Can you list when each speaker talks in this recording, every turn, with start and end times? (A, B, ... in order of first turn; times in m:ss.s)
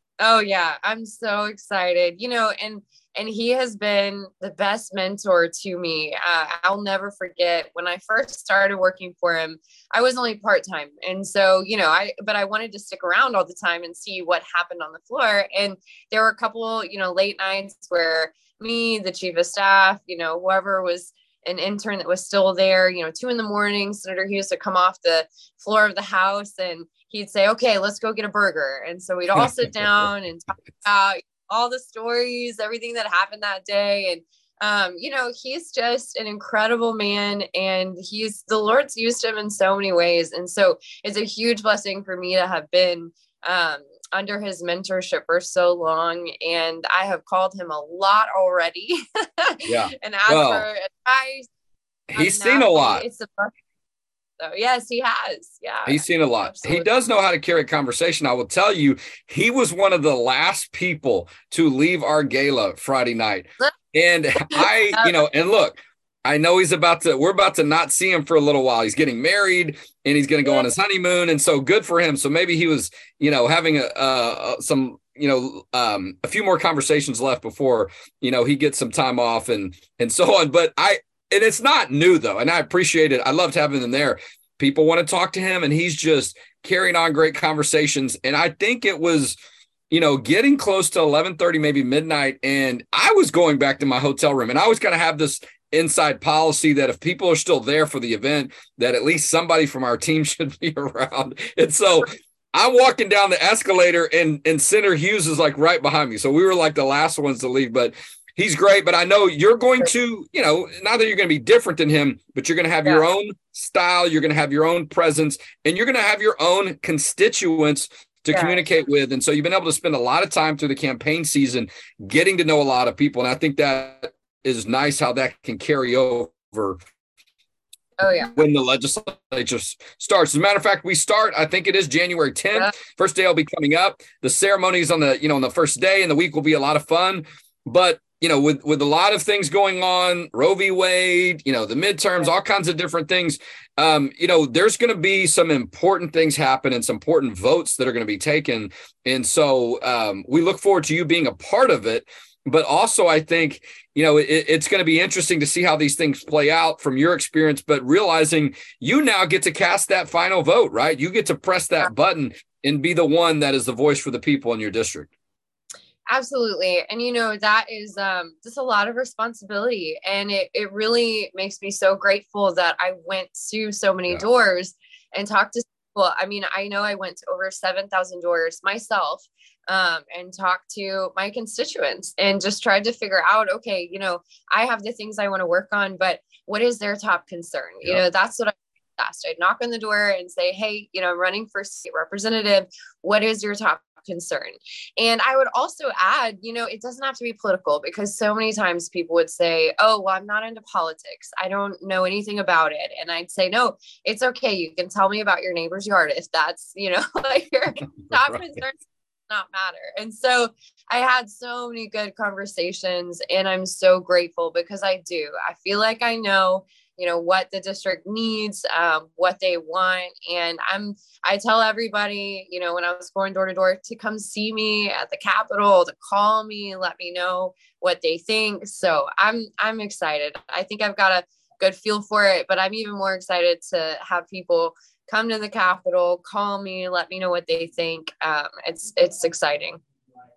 0:00.2-0:51.5 A
0:29.4-0:29.9 B
0:49.6-0:50.6 B
0:52.1-0:53.0 B
0:52.1-0:53.5 A
0:54.4-0:56.9 A
0:55.8-1:29.4 B
1:04.5-1:05.1 A
1:29.9-2:06.8 B
1:58.3-1:58.6 A
2:08.0-2:08.4 A
2:08.3-2:45.1 B
2:46.1-3:59.8 A
3:28.1-3:28.3 B